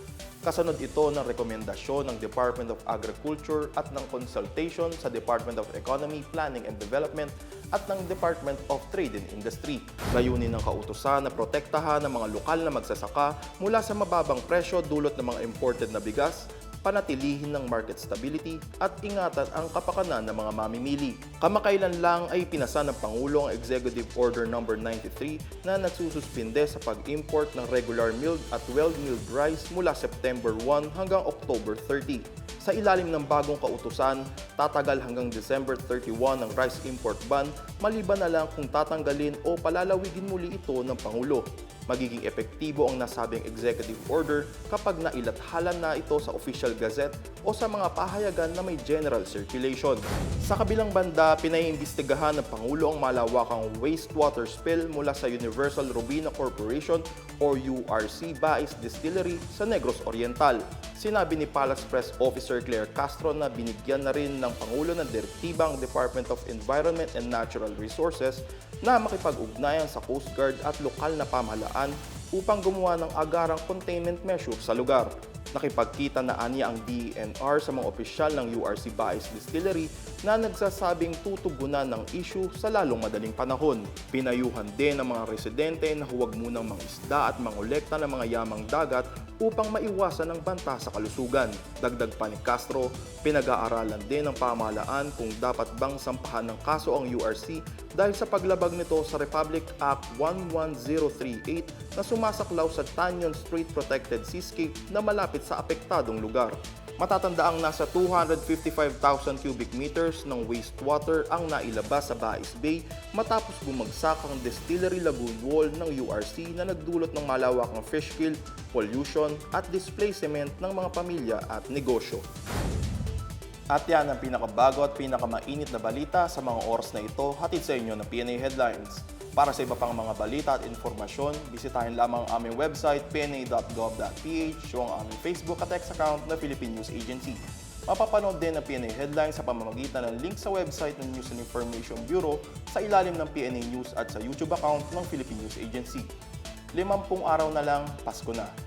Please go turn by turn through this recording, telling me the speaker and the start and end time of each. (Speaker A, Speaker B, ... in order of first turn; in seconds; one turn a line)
Speaker A: 0.4-122.2
Speaker A: 123.7-146.1
Speaker A: 146.7-148.5